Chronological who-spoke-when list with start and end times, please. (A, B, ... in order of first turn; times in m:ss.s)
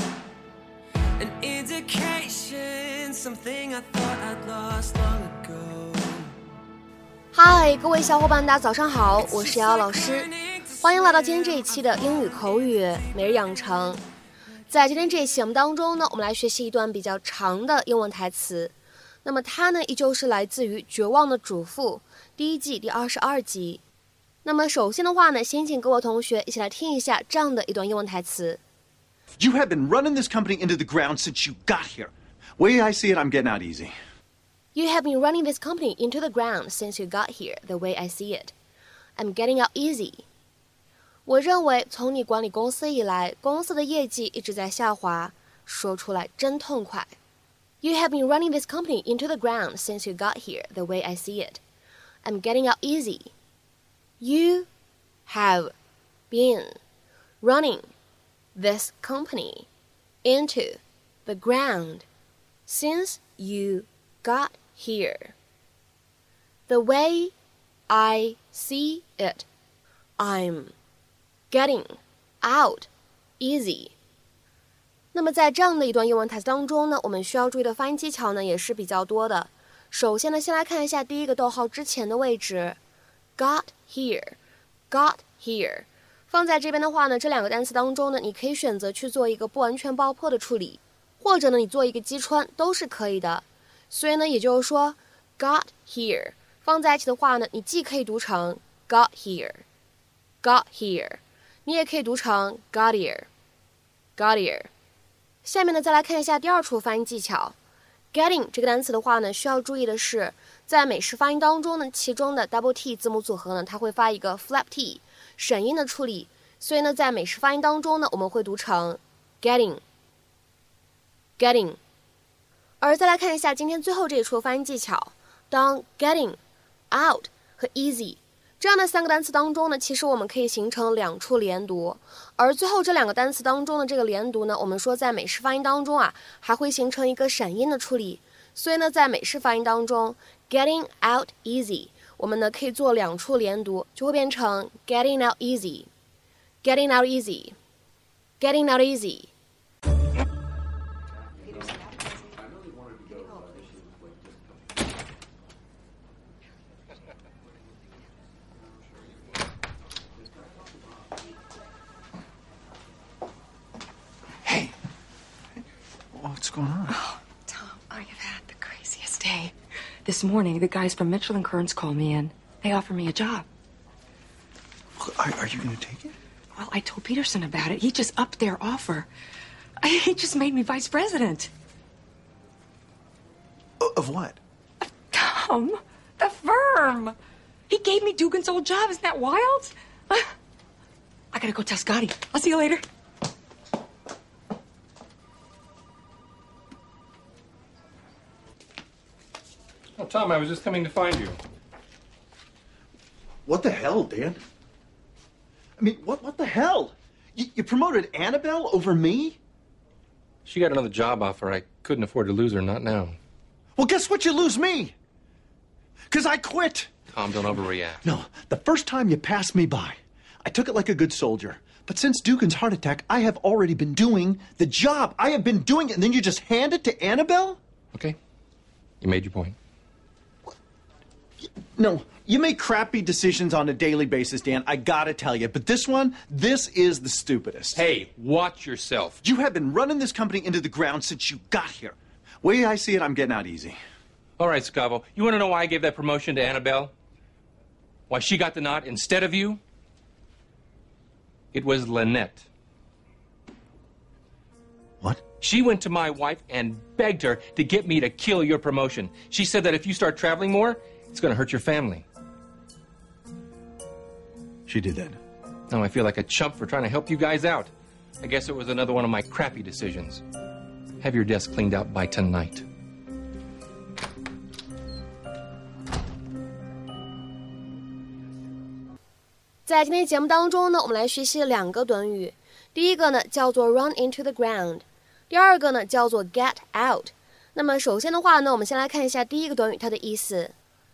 0:01.2-0:06.4 A
0:07.3-0:14.0 B
0:09.2-0:12.7 A
0:14.7-0:18.7 B
0:19.2-0:23.8 B
0:24.4-0:28.6 B
0:29.4-0:33.9 C
0:34.7-0:38.5 B
0:39.2-0:40.3 B
0:41.3-0:47.2 B
0:47.8-0:51.6 B
0:52.2-0:53.3 B
0:54.2-0:54.7 B
0:55.3-0:55.7 B
0:56.3-0:56.8 B
0:57.4-0:57.9 B
0:58.6-0:59.7 B
1:00.2-1:02.1 B
1:02.7-1:05.4 B
1:06.7-1:07.3 B
1:07.9-1:09.5 B
1:10.2-1:10.7 B
1:11.5-1:12.9 B
1:13.4-1:14.0 B
1:15.1-1:22.8 B
1:23.4-1:24.4 B
1:24.9-1:39.6 B
1:40.4-1:43.3 B
1:44.2-1:44.7 B
1:45.4-1:47.6 B
1:48.1-1:59.8 B
2:01.4-2:01.8 B
2:02.8-2:06.4 B
2:06.9-2:25.9 B
2:26.6-2:27.6 B
2:28.4-2:29.3 B
2:44.4-2:44.7 C
2:46.1-2:47.0 C
2:46.9-2:49.5 D
2:50.1-2:53.5 D
2:55.0-2:56.2 C
2:56.6-2:59.1 D
2:59.8-3:01.5 D
3:03.8-3:04.4 C
3:04.8-3:07.2 D
3:07.7-3:10.3 D
3:11.3-3:12.8 D
3:20.0-3:21.4 E
3:23.5-3:24.4 C
3:25.8-3:29.4 C
3:30.5-3:33.2 E
3:33.8-3:35.0 C
3:36.1-3:36.9 C
3:37.1-3:38.0 E
3:38.0-3:47.6 C
3:49.0-3:49.6 E
3:51.8-3:57.8 C
3:57.7-3:59.2 E
3:59.2-4:03.8 C
4:04.4-4:06.9 E
4:08.1-4:09.6 E
4:11.5-4:12.5 E
4:15.4-4:22.0 E
4:24.7-4:25.2 C
4:25.7-4:30.2 E
4:31.0-4:32.7 E
4:39.7-4:50.6 B